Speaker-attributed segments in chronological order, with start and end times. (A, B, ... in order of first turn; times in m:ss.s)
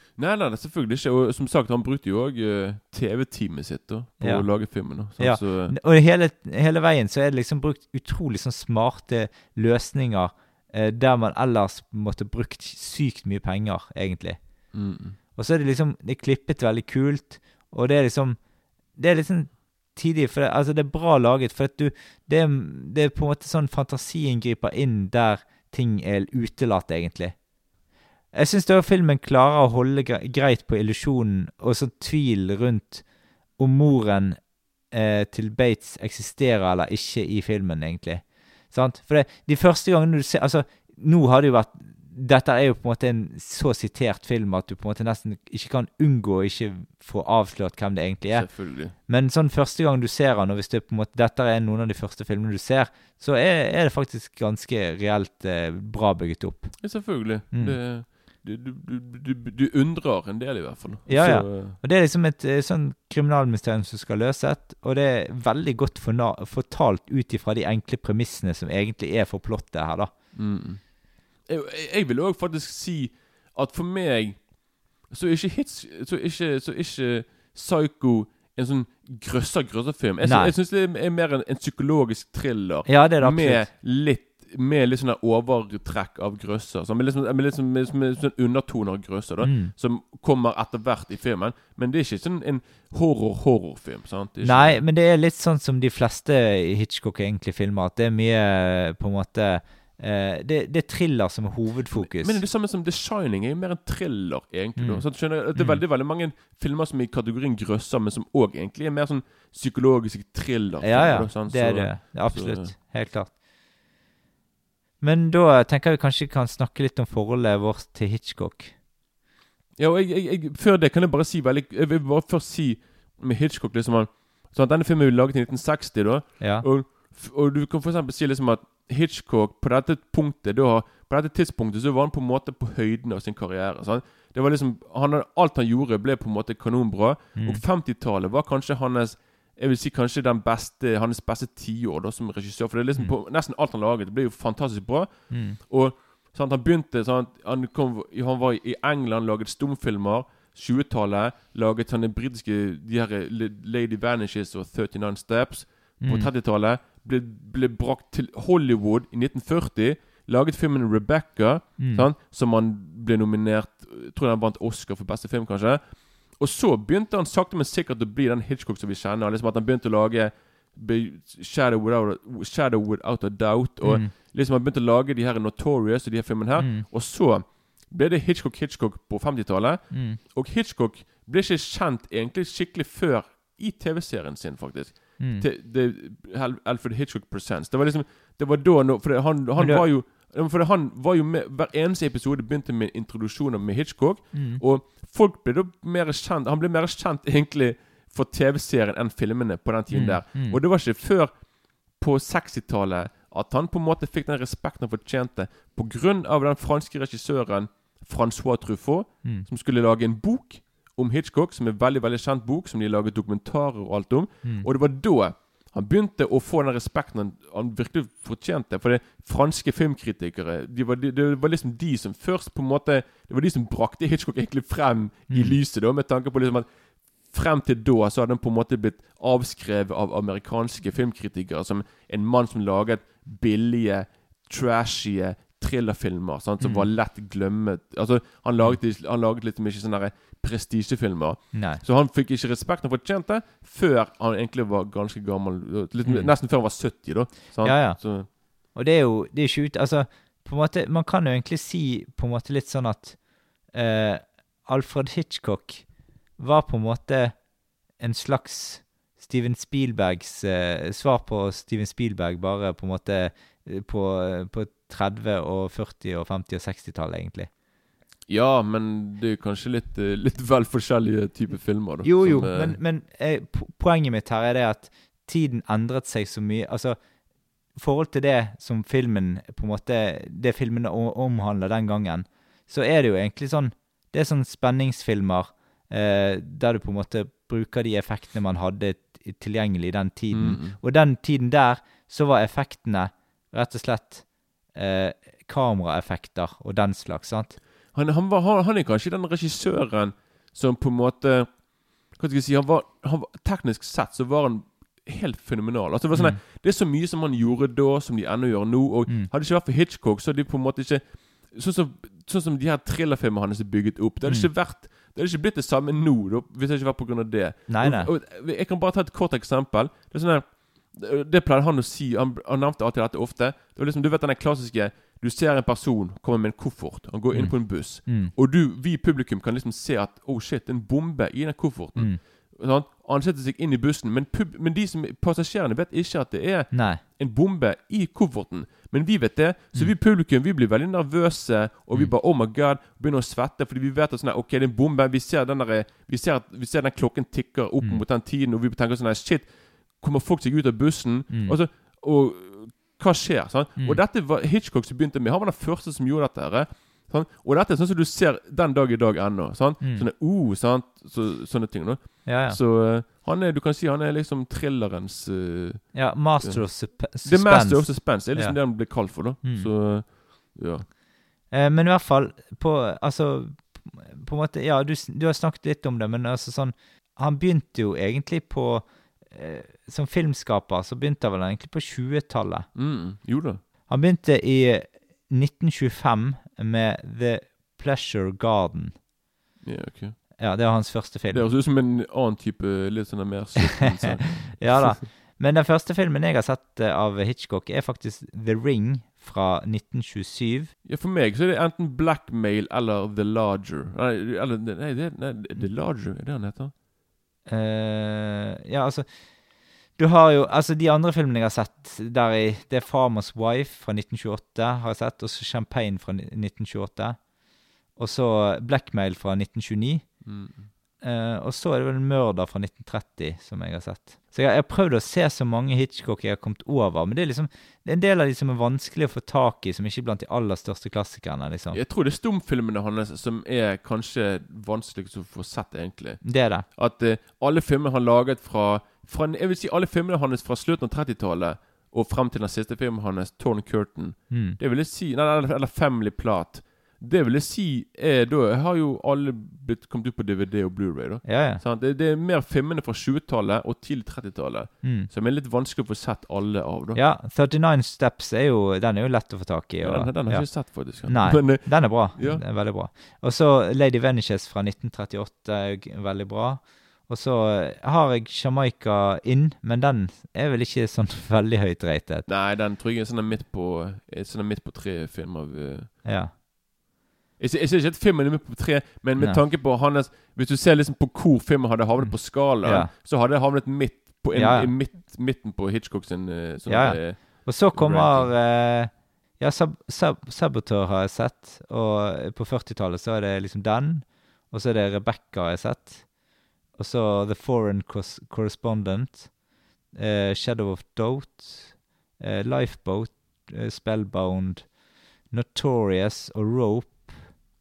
0:00.2-0:05.7 A
0:04.2-0:14.6 B
0:14.7-0:15.2 A
0:15.4-0:18.4 B
0:18.9-0:27.4 B
0:28.3-0:33.0 B
0:33.6-0:56.9 B
0:48.3-0:48.9 A
0:56.8-1:01.8 A
0:57.5-0:57.8 B
1:01.1-1:10.1 B
1:10.3-1:10.8 A
1:11.4-1:14.5 A
1:15.0-1:34.8 A
1:20.2-1:20.5 B
1:22.8-1:23.7 B
1:29.4-1:29.7 B
1:34.4-1:42.4 B
1:41.9-1:52.7 A
1:44.8-1:45.8 B
1:50.8-1:53.3 B
1:55.0-1:58.7 B
1:59.8-3:21.3 A
2:06.4-2:06.6 B
2:17.4-2:17.6 B
2:25.3-2:25.6 B
2:36.0-2:36.3 B
2:41.8-2:42.1 B
2:53.8-2:54.1 B
2:56.6-2:56.8 B
2:59.9-3:00.2 B
3:05.2-3:05.4 B
3:09.6-3:09.8 B
3:14.3-3:14.6 B
3:19.9-3:20.6 B
3:22.0-3:46.7 A
3:45.3-3:45.6 B
3:47.2-4:08.3 A
3:56.6-3:56.9 B
4:01.5-4:01.8 B
4:06.0-4:06.3 B
4:07.6-4:17.4 B
4:18.0-4:27.5 B
4:28.3-4:32.8 A
4:32.0-4:37.0 B
4:37.7-4:57.6 B
4:50.3-4:50.8 A
4:57.9-6:10.8 A
5:06.1-5:06.4 B
5:17.7-5:18.1 B
5:27.3-5:28.3 B
5:36.7-5:37.0 B
5:51.3-5:51.6 B
5:59.8-6:00.1 B
6:02.2-6:02.6 B
6:05.9-6:09.7 B
6:11.5-6:22.7 B
6:22.7-6:23.6 A
6:23.9-6:29.0 B
6:29.6-6:30.2 A
6:30.4-6:31.4 B
6:31.3-6:35.0 A
6:34.0-6:40.7 B
6:40.8-6:46.7 A
6:47.5-6:49.2 B
6:50.0-6:57.2 B
6:58.0-7:00.1 B
7:00.2-7:00.7 A
7:01.0-7:11.8 B
7:11.7-7:37.0 A
7:16.2-7:16.6 B
7:24.3-7:24.6 B
7:31.2-7:31.6 B
7:34.8-7:35.1 B
7:36.9-7:52.3 B
7:39.8-7:42.4 A
7:52.3-7:55.9 A
7:56.0-7:56.3 B
7:57.4-8:08.3 A
8:02.0-8:02.9 B
8:04.3-8:04.7 B
8:06.7-8:16.1 B
8:16.7-8:19.3 B
8:19.9-8:24.7 B
8:25.3-8:27.3 B